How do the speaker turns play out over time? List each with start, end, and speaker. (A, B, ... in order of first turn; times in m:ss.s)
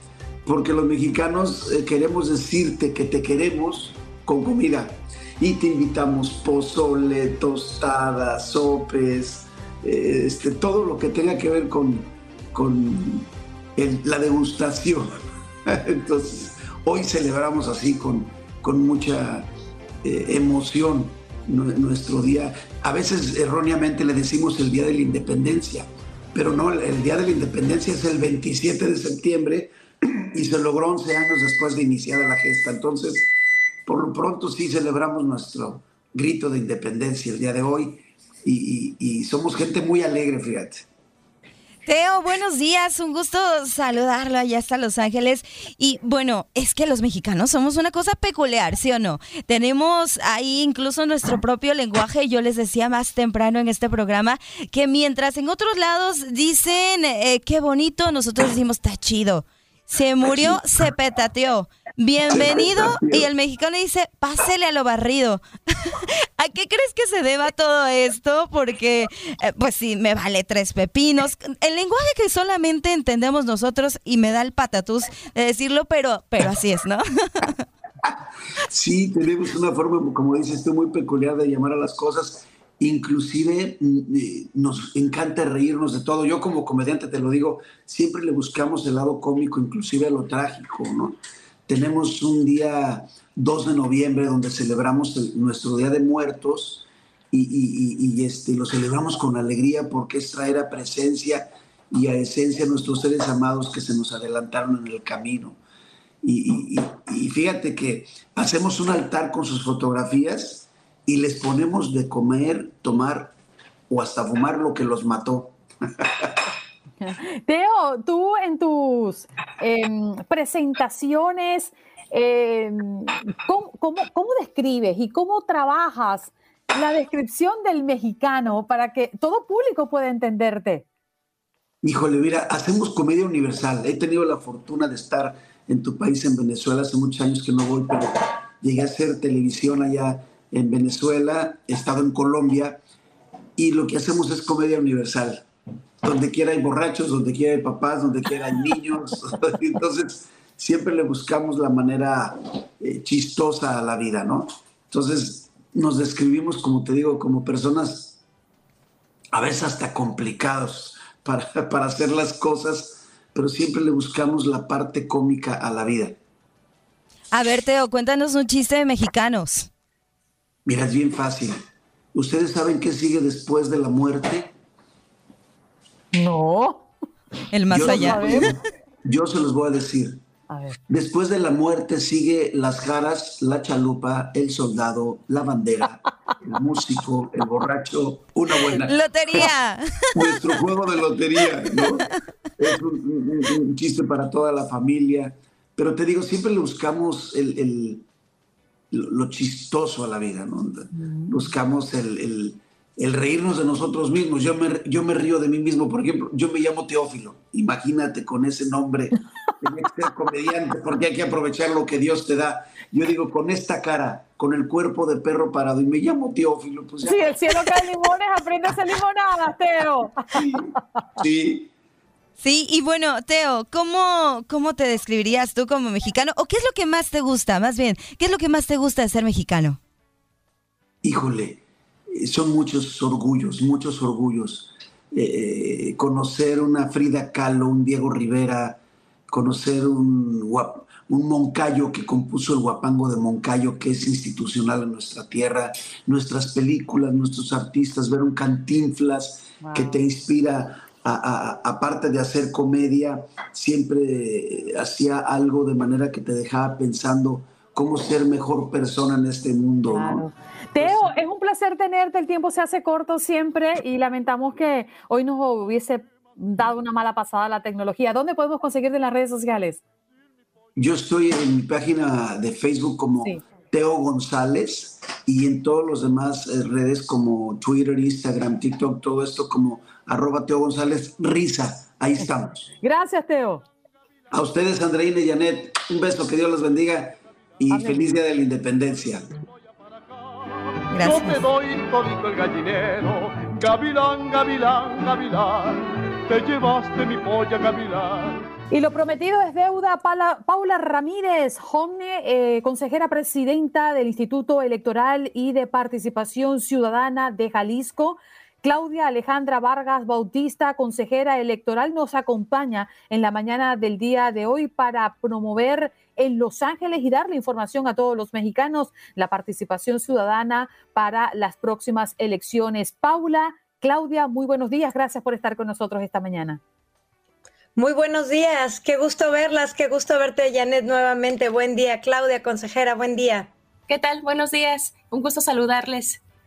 0:00.4-0:15.1 A
0:15.7-0:19.5 A
0:20.0-0:33.3 A
0:33.8-0:40.8 A
0:41.8-1:17.6 B
1:00.2-1:00.6 A
1:02.3-1:03.3 A
1:18.7-1:45.6 A
1:46.2-1:53.3 A
1:53.9-1:56.3 A
1:57.0-2:10.8 C
2:11.8-2:22.8 A
2:23.6-2:25.5 A
2:26.0-2:38.2 A
2:39.3-2:46.2 A
2:47.3-2:49.7 B
2:50.6-2:51.6 A
2:52.1-2:54.5 A
2:56.1-2:56.8 C
2:57.5-2:58.4 B
2:57.7-3:00.2 A
2:57.8-2:58.5 C
3:00.5-3:00.8 C
3:00.9-3:09.5 A
3:08.7-3:10.6 B
3:10.1-3:18.0 A
3:18.9-3:37.9 A
3:21.0-3:21.5 C
3:37.0-3:40.6 C
3:40.3-3:40.6 A
3:41.2-3:41.7 A
3:42.4-3:49.8 B
3:51.0-3:51.6 A
3:52.1-4:20.3 A
4:09.6-4:10.0 C
4:19.9-4:29.8 C
4:20.8-4:21.1 A
4:30.8-4:42.7 A
4:42.8-4:43.6 C
4:44.3-4:49.3 A
4:47.7-4:48.1 C
4:50.2-4:58.5 D
4:50.9-4:51.4 B
4:58.7-5:26.6 C
5:27.8-5:33.5 E
5:33.9-5:36.2 F